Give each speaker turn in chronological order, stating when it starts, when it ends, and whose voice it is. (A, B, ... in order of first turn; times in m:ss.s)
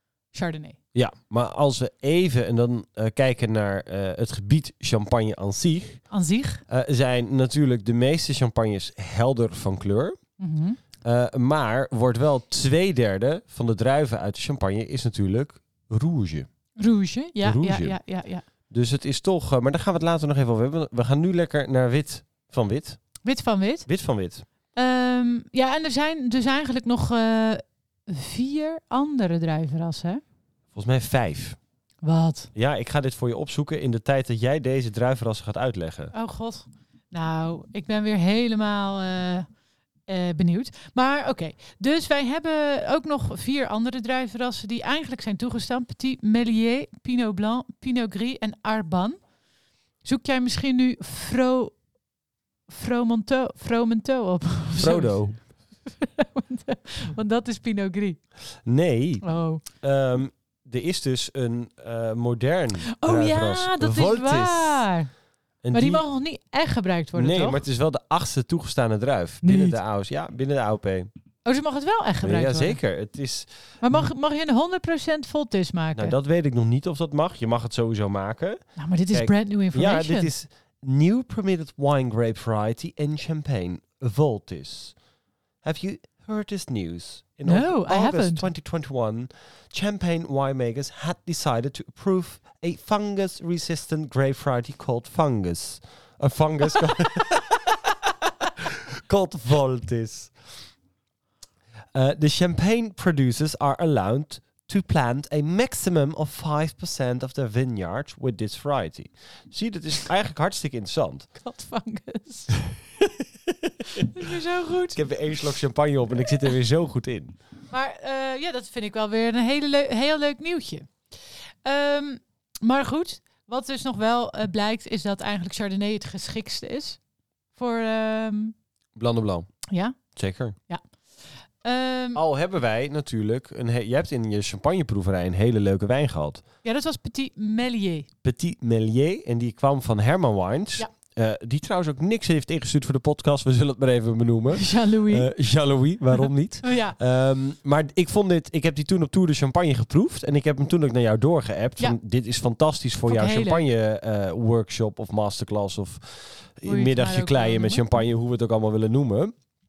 0:00.3-0:00.8 A
0:00.9-0:06.0 B
0:06.1-0:06.6 A
0:06.7-0:10.2 B
0:10.4-0:10.8 A
0:11.0-0:16.5 B
0:16.8-0:18.4 A
0:17.4-0:18.0 B
0:18.7-0:23.0 B
0:23.2-0:23.9 A
0:23.9-0:24.4 B
0:24.7-0:30.2 A
0:30.7-0:31.6 B
0:32.0-0:32.5 A
0:32.5-0:36.1 B
0:36.1-0:39.4 A
0:40.1-0:49.2 A
0:50.0-0:51.8 A
0:52.7-0:55.2 A
0:54.8-0:55.4 B
0:55.8-0:58.2 A
0:58.6-1:04.9 B
0:59.2-0:59.6 A
1:02.9-1:05.1 A
1:05.6-1:06.0 B
1:05.7-1:07.6 A
1:07.2-1:11.1 B
1:09.4-1:09.8 A
1:11.4-1:12.8 A
1:12.2-1:14.0 B
1:13.8-1:16.1 A
1:16.0-1:18.6 B
1:18.8-1:20.3 A
1:19.1-1:24.9 B
1:25.6-1:37.6 B
1:27.4-1:28.4 A
1:38.4-1:40.3 B
1:41.9-1:51.3 B
1:51.4-1:52.6 A
1:53.6-1:54.1 B
1:53.9-1:55.0 A
1:54.9-1:57.4 B
1:57.7-2:00.9 A
2:01.6-2:07.0 A
2:07.6-2:08.5 A
2:09.0-2:09.5 B
2:09.7-2:10.0 A
2:10.1-2:10.6 B
2:11.6-2:12.2 A
2:12.1-2:16.4 B
2:16.6-2:18.1 A
2:18.2-2:39.3 B
2:24.5-2:25.3 A
2:26.6-2:27.0 A
2:33.0-2:33.6 A
2:36.6-2:37.8 A